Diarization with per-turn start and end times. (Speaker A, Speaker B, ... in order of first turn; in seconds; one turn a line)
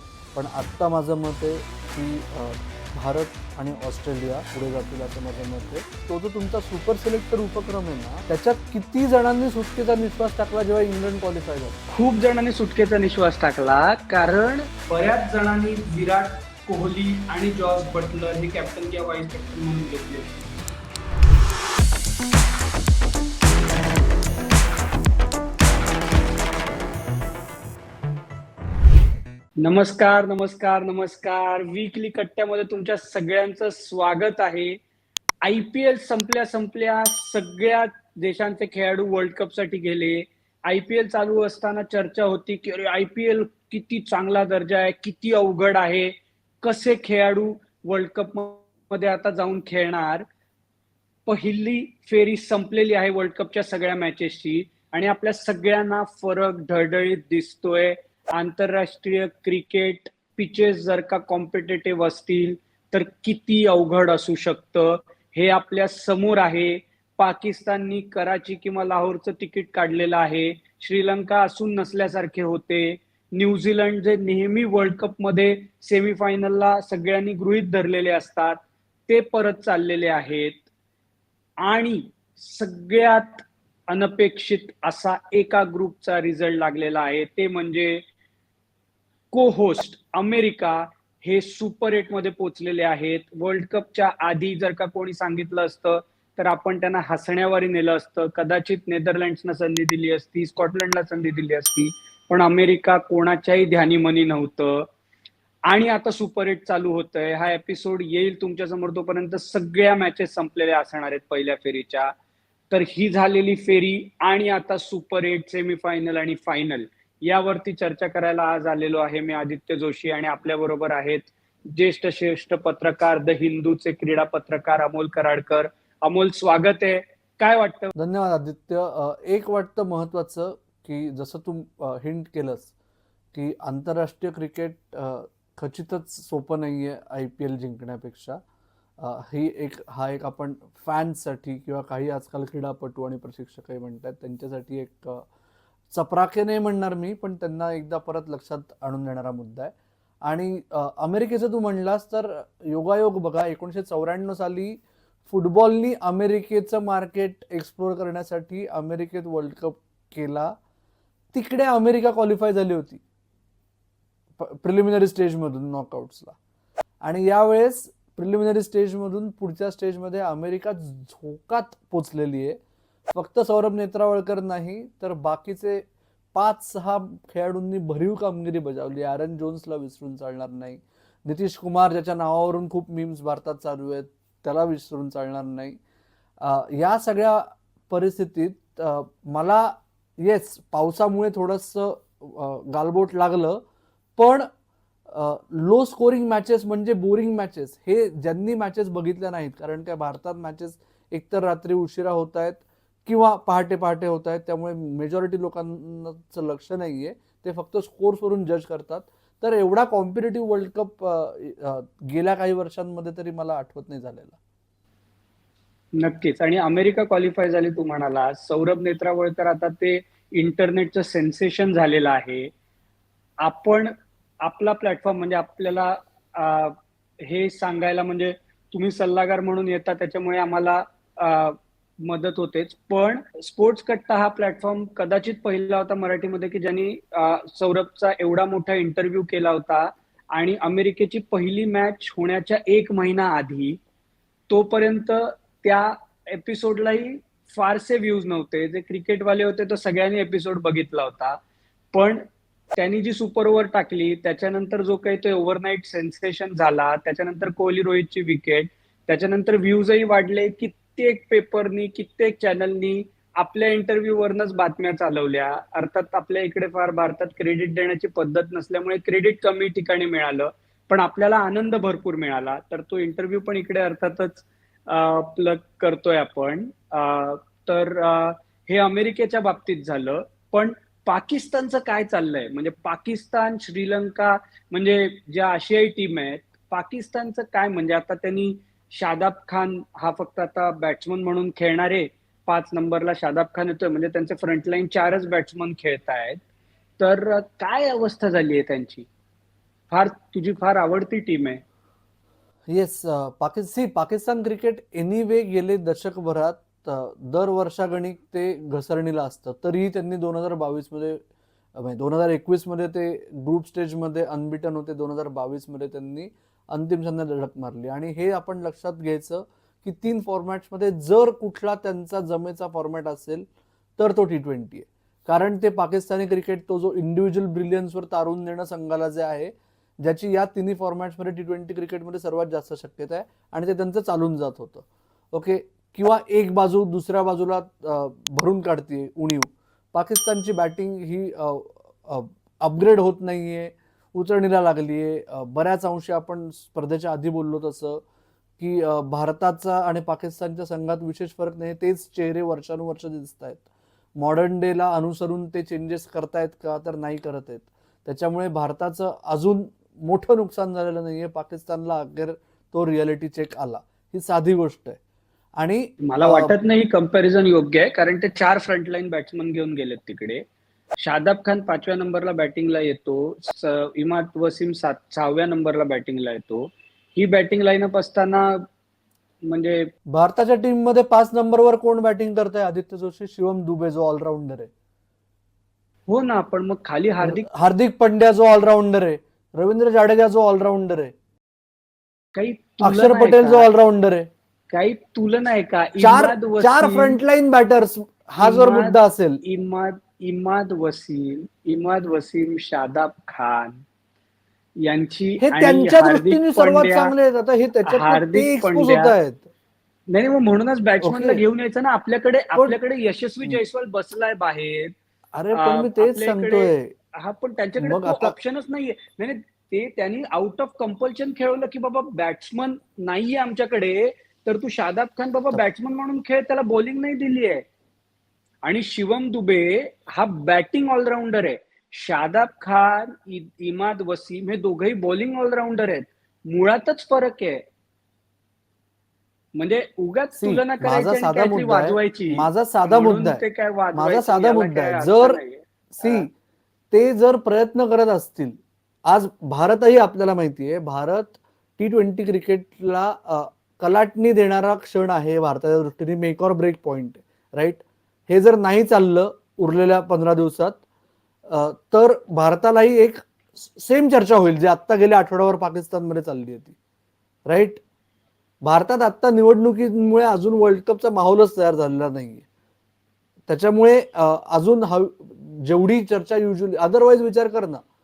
Speaker A: 0.3-11.8
Speaker B: 11.9-20.5
Speaker B: 29.6-34.8
Speaker B: 35.4-50.3
Speaker B: 51.2-80.6
Speaker B: 81.6-88.0
Speaker B: 89.3-104.9
Speaker B: 105.7-112.1
Speaker B: 112.7-127.9
Speaker A: 127.9-132.7
Speaker A: 133.3-138.4
Speaker A: 139.0-145.2
Speaker A: 145.9-149.7
Speaker A: 150.2-160.5
Speaker A: 161.3-163.0
Speaker A: 164.4-166.3
Speaker A: 167.0-172.6
Speaker A: 173.1-185.8
Speaker A: 186.4-193.6
Speaker A: 194.2-194.5
Speaker A: 195.1-214.4
Speaker B: 216.0-222.5
Speaker B: 223.4-243.8
Speaker B: 244.5-251.4
Speaker B: 251.9-296.4
Speaker B: 297.0-299.1
Speaker B: 299.9-301.6
Speaker A: 302.7-311.2
Speaker A: 311.7-323.4
Speaker A: 324.0-348.0
Speaker A: 348.6-353.6
Speaker A: 354.2-365.0
Speaker A: 365.6-366.5
Speaker B: 366.0-370.4
Speaker B: 371.0-378.7
Speaker B: 379.4-379.9
Speaker A: 380.1-384.7
Speaker B: 386.1-387.5
Speaker A: 387.2-391.1
Speaker B: 392.3-393.7
Speaker A: 392.8-394.3
Speaker B: 394.7-397.2
Speaker A: 396.0-399.4
Speaker B: 398.4-403.8
Speaker B: 404.8-407.1
Speaker A: 405.4-409.5
Speaker B: 407.9-409.1
Speaker B: 410.1-414.9
Speaker A: 411.0-411.4
Speaker A: 415.3-416.9
Speaker B: 415.5-427.6
Speaker A: 417.8-418.4
Speaker B: 428.6-437.6
Speaker B: 439.6-446.3
Speaker A: 440.4-443.4
Speaker A: 443.9-445.4
Speaker A: 445.9-446.3
Speaker A: 446.9-460.8
Speaker A: 461.5-466.8
Speaker A: 467.5-467.8
Speaker A: 468.6-472.4
Speaker A: 473.5-477.8